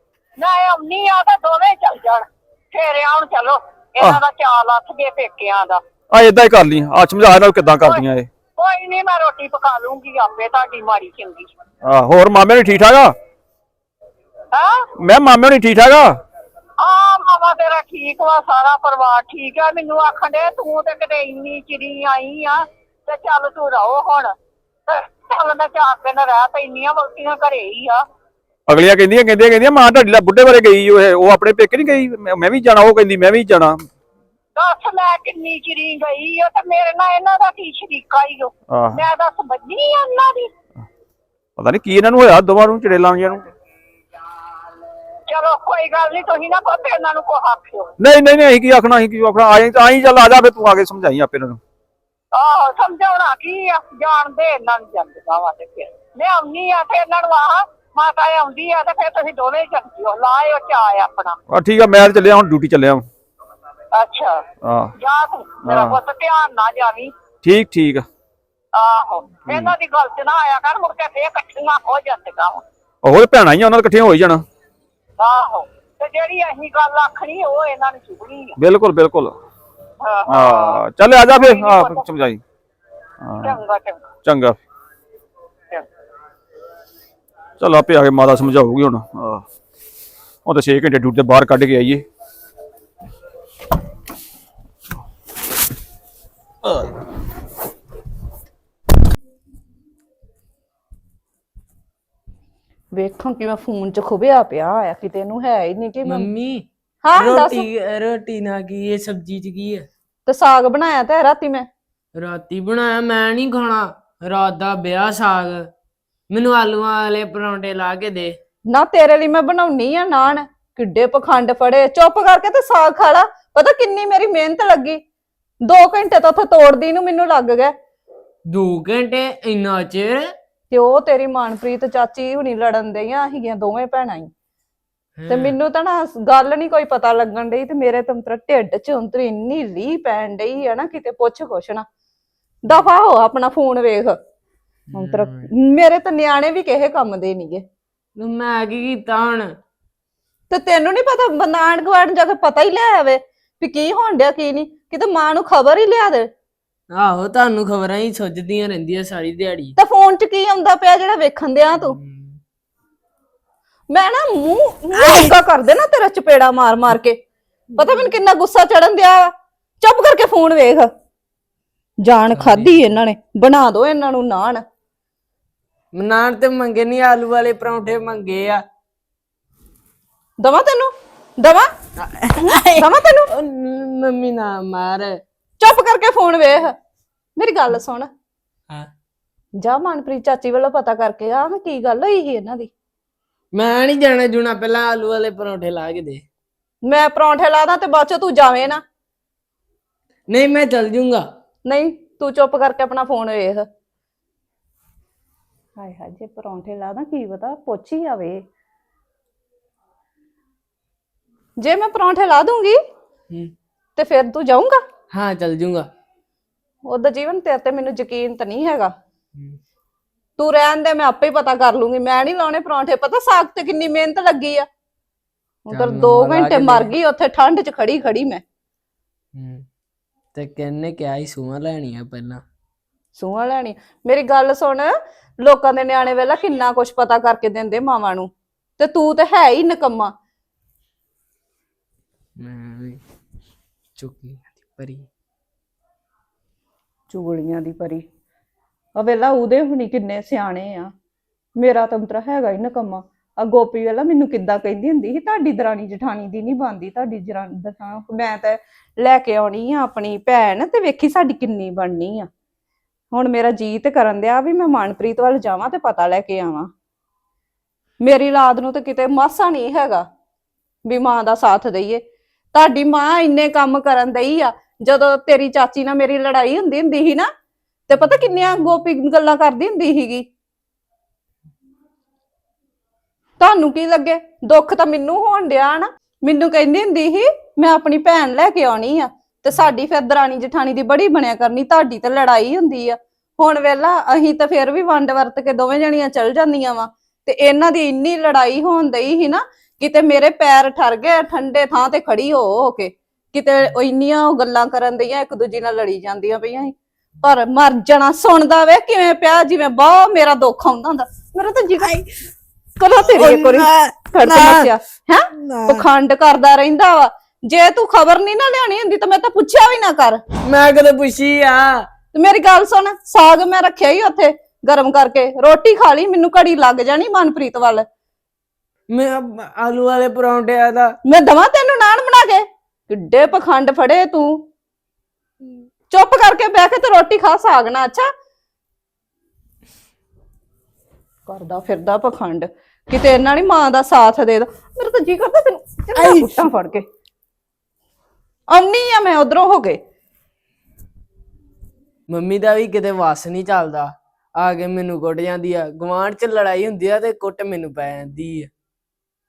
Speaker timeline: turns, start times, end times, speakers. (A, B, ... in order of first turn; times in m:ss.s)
0:00.4-0:05.8 A
0:06.1-0:08.3 B
0:08.6-0:11.5 A
0:11.8-0:13.1 B
0:14.5-0:14.8 A
0:15.0-0:16.1 B
0:16.8-0:24.4 A
0:24.9-0:28.0 A
0:28.7-0:33.8 B
0:34.6-0:40.5 A
0:38.7-0:39.1 B
0:41.6-0:43.4 B
0:45.3-0:47.9 A
0:48.0-0:51.6 B
0:52.3-1:01.4 A
1:01.5-1:03.1 B
1:03.9-1:04.4 A
1:04.6-1:04.9 B
1:05.0-1:07.2 A
1:05.6-1:06.0 B
1:07.4-1:08.1 B
1:08.7-1:12.6 A
1:09.4-1:09.8 B
1:13.0-1:14.4 B
1:15.2-1:18.6 A
1:18.6-1:19.3 B
1:20.0-1:22.1 A
1:20.3-1:22.4 B
1:23.2-1:23.6 B
1:23.4-1:24.1 A
1:24.2-1:24.6 B
1:27.6-1:29.4 B
1:30.5-1:32.0 B
1:43.0-1:46.3 C
1:46.1-1:46.6 D
1:47.0-1:47.7 C
1:47.2-1:49.9 D
1:50.3-1:51.7 C
1:52.2-1:55.7 D
1:56.3-1:58.3 D
1:58.7-2:05.0 C
2:05.6-2:07.7 C
2:08.5-2:10.2 D
2:10.7-2:14.3 C
2:15.2-2:15.6 D
2:15.3-2:21.9 C
2:22.6-2:24.2 C
2:24.9-2:25.5 D
2:25.0-2:27.6 C
2:28.2-2:29.5 D
2:30.5-2:36.3 C
2:36.9-2:39.7 D
2:39.8-2:42.0 C
2:41.8-2:42.4 D
2:43.9-2:47.2 C
2:45.0-2:45.3 D
2:47.7-2:48.1 D
2:47.8-2:49.3 C
2:49.8-2:50.9 C
2:52.0-2:54.6 C
2:52.3-2:52.8 D
2:56.0-2:58.6 D
3:00.4-3:01.7 C
3:02.0-3:05.2 D
3:02.8-3:03.3 C
3:05.6-3:06.7 C
3:07.4-3:08.1 C
3:09.6-3:12.7 C
3:13.5-3:16.2 D
3:16.8-3:18.8 C
3:20.3-3:21.2 D
3:21.6-3:23.7 C
3:25.8-3:28.4 C
3:31.6-3:32.8 C
3:34.0-3:34.8 C
3:35.1-3:35.9 D
3:36.8-3:38.9 C
3:40.4-3:44.7 C
3:45.7-3:48.4 C
3:45.7-3:46.9 D
3:49.4-3:49.6 D
3:50.3-3:52.4 D
3:53.2-4:00.1 C
4:02.4-4:03.0 D
4:04.0-4:05.1 D
4:07.1-4:08.0 C
4:09.0-4:10.9 C
4:11.6-4:22.3 C
4:23.1-4:26.7 C
4:28.0-4:30.1 C
4:30.9-4:32.0 C
4:32.5-4:37.3 C
4:37.9-4:40.3 C
4:43.4-5:12.0 C
5:12.8-5:20.2 C
5:13.2-5:14.7 D
5:20.4-5:21.8 D
5:22.1-5:27.9 C
5:28.9-5:30.9 D
5:31.1-5:34.4 C
5:35.9-5:38.1 C
5:41.3-5:46.8 C
5:46.0-5:46.3 D
5:48.5-5:49.8 C
5:52.1-5:58.5 D